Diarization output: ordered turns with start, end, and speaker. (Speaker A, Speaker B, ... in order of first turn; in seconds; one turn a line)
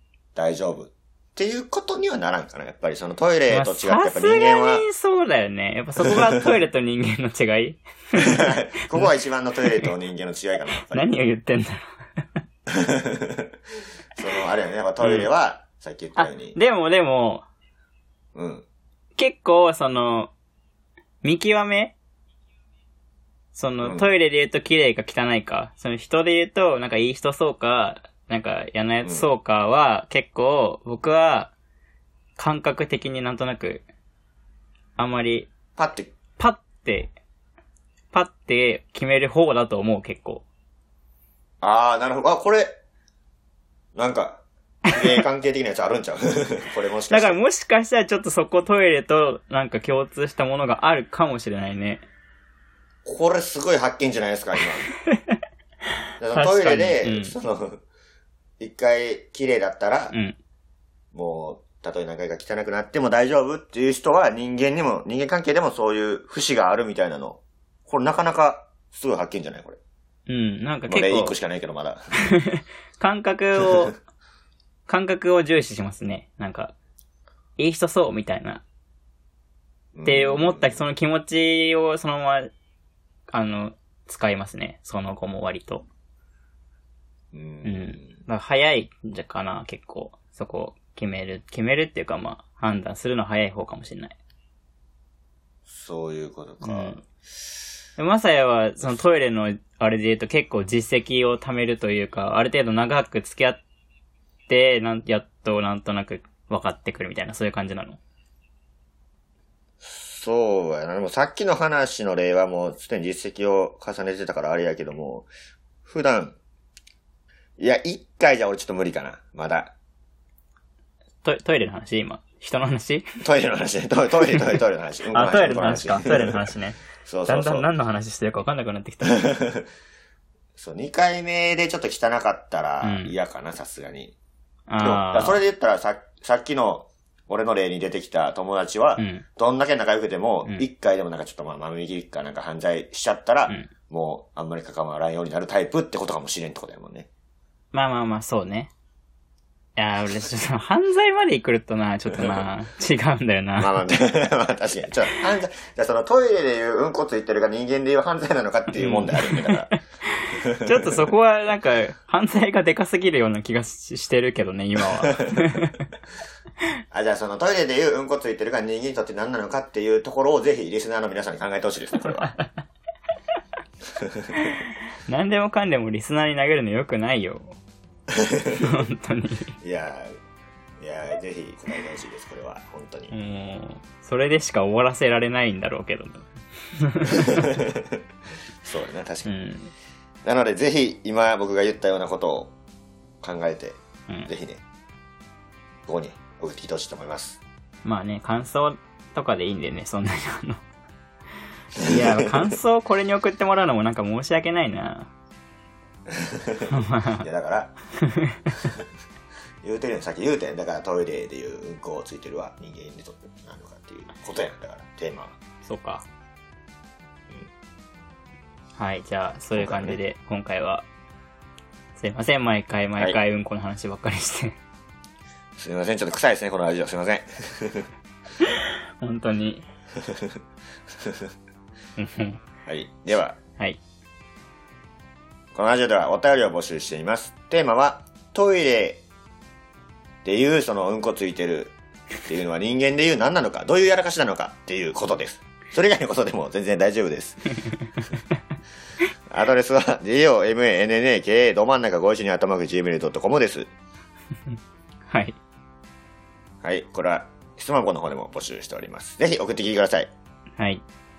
Speaker A: 0.3-4.8
Speaker B: 3.5-9.1
Speaker A: 6.0-6.3
Speaker A: 8.1-11.1
Speaker B: 10.8-12.4
Speaker A: 12.8-13.5
Speaker A: 14.2-16.6
Speaker B: 15.0-15.3
Speaker B: 16.1-17.4
Speaker A: 18.3-18.6
Speaker B: 19.1-20.3
Speaker B: 21.2-21.9
Speaker B: 23.5-31.5
Speaker A: 23.8-24.1
Speaker A: 29.0-29.3
Speaker B: 32.4-33.9
Speaker B: 35.0-35.5
Speaker A: 35.8-36.1
Speaker B: 36.4-37.1
Speaker B: 38.1-40.4
Speaker A: 41.6-42.7
Speaker A: 43.9-47.4
Speaker B: 47.1-52.0
Speaker A: 53.0-54.9
Speaker A: 56.2-57.8
Speaker B: 56.3-57.4
Speaker A: 58.6-60.1
Speaker A: 61.1-69.8
Speaker B: 70.3-71.4
Speaker A: 70.9-72.1
Speaker B: 72.3-74.0
Speaker B: 74.9-76.7
Speaker B: 77.6-78.6
Speaker A: 79.9-80.8
Speaker B: 80.0-82.5
Speaker B: 83.3-85.8
Speaker A: 87.3-88.2
Speaker B: 87.6-94.2
Speaker A: 95.7-97.0
Speaker B: 96.6-97.0
Speaker B: 98.0-103.6
Speaker B: 104.5-108.0
Speaker A: 109.8-115.3
Speaker A: 115.8-116.4
Speaker A: 117.6-119.7
Speaker B: 121.2-123.0
Speaker A: 123.2-126.4
Speaker B: 125.1-129.3
Speaker A: 127.0-127.7
Speaker A: 129.0-129.7
Speaker A: 130.6-134.1
Speaker B: 132.8-133.1
Speaker B: 134.7-135.4
Speaker A: 134.8-147.1
Speaker B: 139.0-139.2
Speaker B: 147.7-148.7
Speaker B: 149.8-153.9
Speaker A: 152.1-152.4
Speaker A: 153.6-159.7
Speaker B: 158.7-165.8
Speaker A: 160.4-161.0
Speaker A: 166.9-172.3
Speaker B: 174.3-177.6
Speaker A: 178.1-178.8
Speaker B: 178.5-179.5
Speaker A: 179.6-180.1
Speaker A: 180.8-183.1
Speaker B: 183.1-187.5
Speaker A: 187.2-187.8
Speaker A: 188.6-189.3
Speaker B: 189.2-189.7
Speaker A: 190.2-192.5
Speaker A: 193.2-194.6
Speaker A: 195.9-197.4
Speaker B: 197.8-200.6
Speaker B: 201.8-205.1
Speaker A: 201.8-202.5
Speaker A: 206.1-207.7
Speaker B: 206.7-207.2
Speaker A: 209.6-215.3
Speaker B: 215.6-216.0
Speaker B: 218.8-220.8
Speaker A: 219.5-220.0
Speaker B: 222.0-224.5
Speaker A: 225.6-227.9
Speaker B: 228.4-229.6
Speaker B: 232.0-232.4
Speaker A: 232.7-233.4
Speaker A: 235.5-239.0
Speaker A: 240.2-241.7
Speaker A: 242.2-247.5
Speaker A: 249.3-253.7
Speaker B: 255.1-255.4
Speaker A: 256.6-260.1
Speaker B: 260.6-260.8